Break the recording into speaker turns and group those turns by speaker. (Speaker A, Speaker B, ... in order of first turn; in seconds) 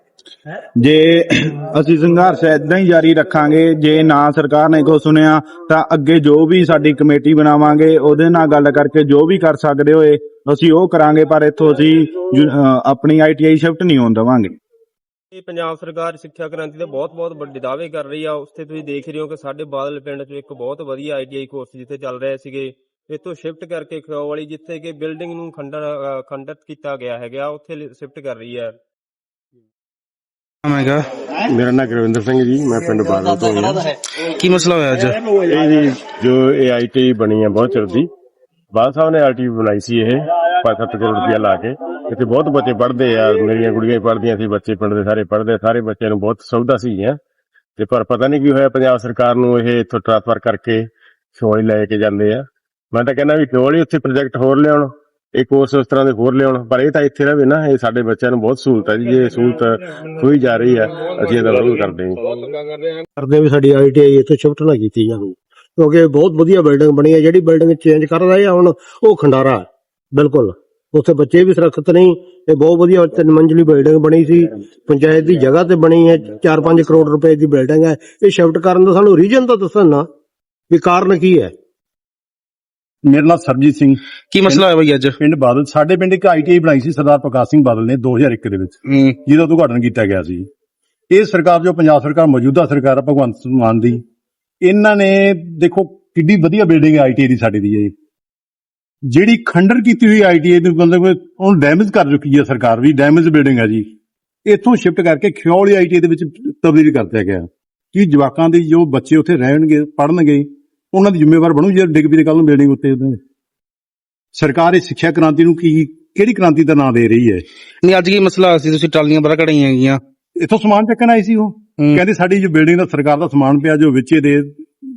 Speaker A: 0.8-14.5
Speaker B: 15.3-28.7
Speaker C: 30.6-31.1, 34.2-35.3, 84.3-85.2, 88.8-89.2, 117.8-120.0
Speaker D: 31.4-34.0, 35.3-38.1, 38.7-47.2, 47.8-62.5
Speaker E: 63.2-80.1, 80.7-81.5
Speaker F: 83.0-84.7, 85.2-90.5, 91.1-94.0, 94.6-97.9, 99.1-103.9, 104.5-113.2, 114.3-117.4, 120.4-124.6